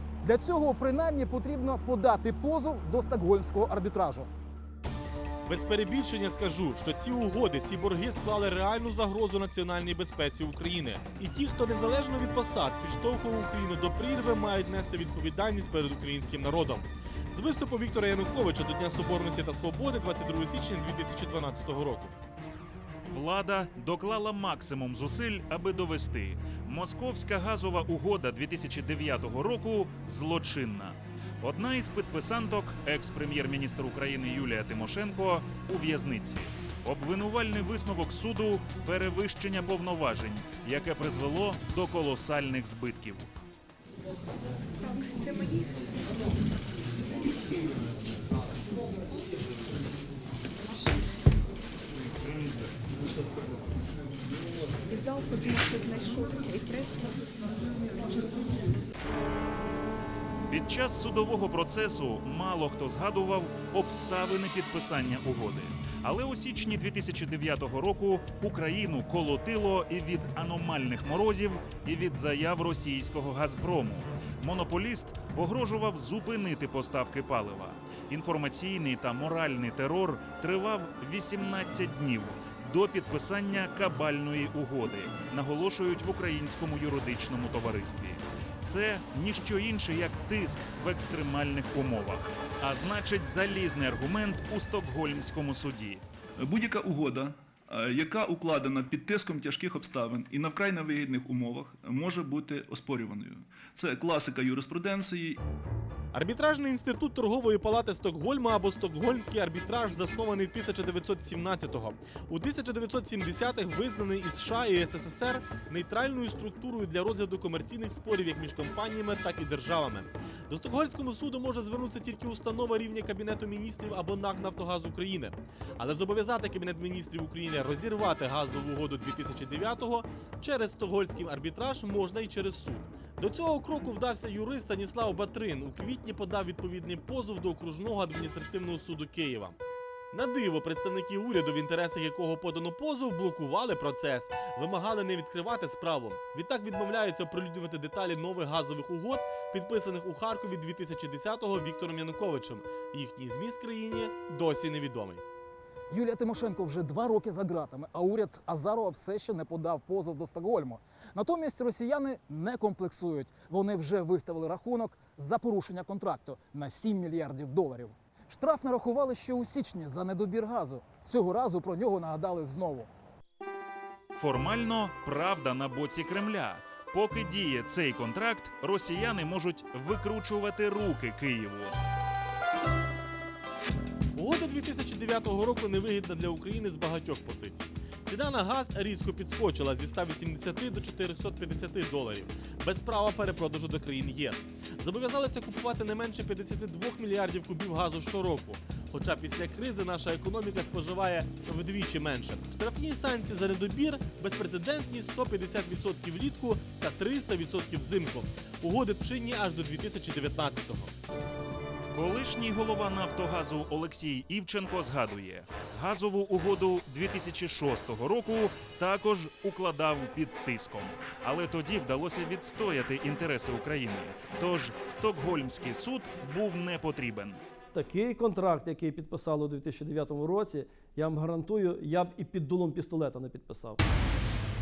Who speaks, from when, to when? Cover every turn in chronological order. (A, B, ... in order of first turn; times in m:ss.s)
0:00.2-0:04.3 A
0:05.5-0:22.2 B
0:23.1-0:43.3 C
0:44.9-0:45.6 D
0:54.9-0:57.1 D
1:00.5-1:36.0 C
1:36.4-1:45.4 E
1:46.1-2:19.6 B
2:20.1-2:35.2 B
2:35.9-2:52.9 A
2:54.2-3:01.8 C
3:04.1-3:30.9 B
3:31.9-3:47.4 C
3:47.7-3:53.8 F